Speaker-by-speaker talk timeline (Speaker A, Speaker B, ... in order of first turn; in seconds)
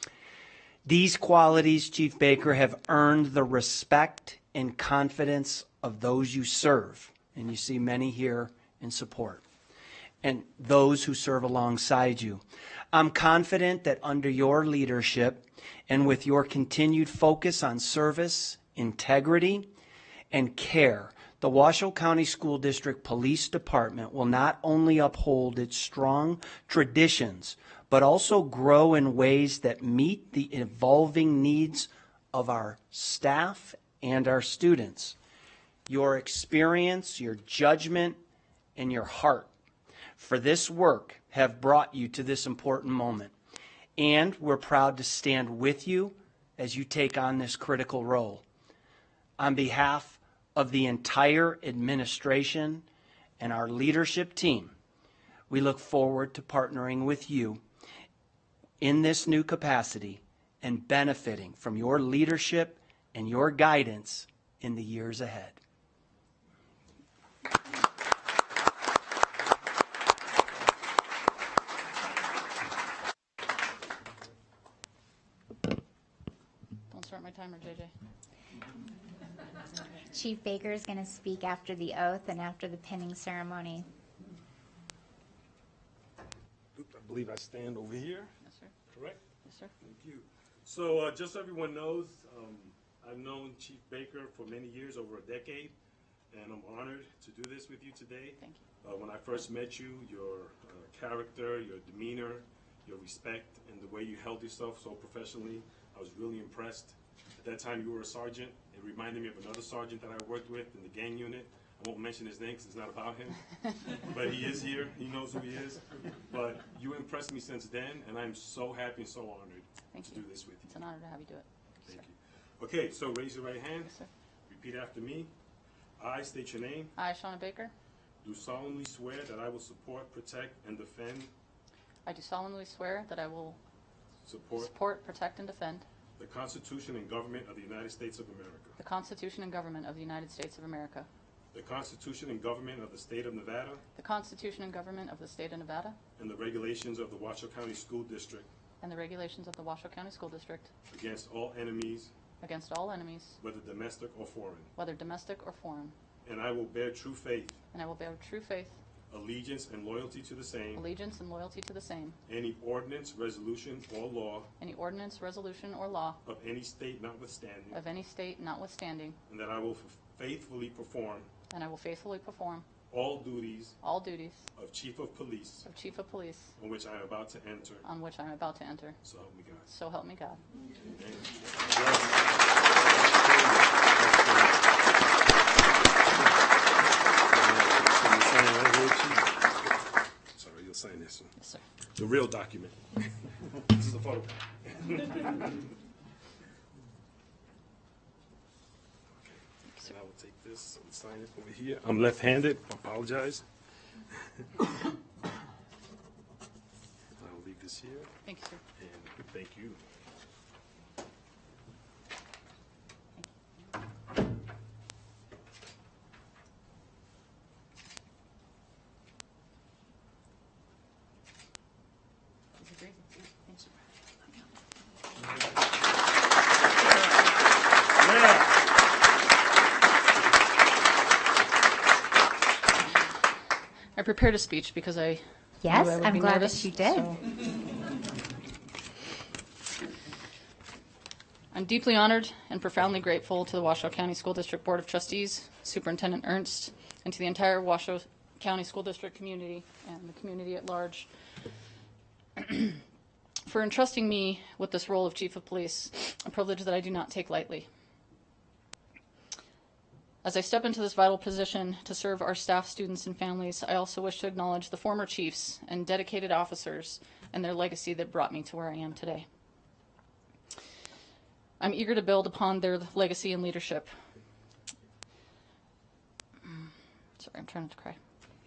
Speaker A: 0.8-9.4, 10.2-19.6, 20.3-35.1, 35.9-38.2, 38.8-39.5, 40.1-43.3, 44.0-48.4, 49.4-52.8, 53.4-54.7, 55.5-57.6, 58.8-65.6
Speaker B: 76.9-77.9, 88.4-88.7, 89.4-89.7, 119.9-122.0, 127.0-127.7, 132.1-133.6, 134.6-135.8, 138.8-141.1, 143.9-146.0, 148.8-150.7, 152.4-153.4, 154.8-155.9, 157.7-158.8, 160.7-162.2, 164.6-166.2, 167.7-169.2, 171.5-172.6, 173.8-174.4, 175.7-176.5, 177.8-179.0, 179.7-180.4, 208.2-208.6, 222.5-224.6, 233.9-237.2, 241.5-251.1, 252.3-252.8, 253.4-257.7, 260.2-269.3, 271.6-273.9, 276.4-278.0
Speaker C: 80.1-83.9, 235.6-237.2
Speaker D: 86.7-88.3, 88.9-89.2, 89.8-95.7, 96.3-120.8, 121.8-123.9, 124.5-125.3, 126.0-126.9, 128.2-131.3, 134.2-134.7, 136.2-138.8, 141.5-143.8, 146.2-148.5, 150.9-152.1, 153.4-154.7, 156.2-157.6, 159.1-160.9, 162.3-164.5, 166.2-167.8, 169.3-171.3, 172.9-173.8, 174.5-175.7, 176.6-177.8, 179.0-179.7, 180.8-184.6, 187.3-189.3, 190.3-191.3, 191.9-195.4, 199.2-203.4, 207.2-208.1, 208.8-209.8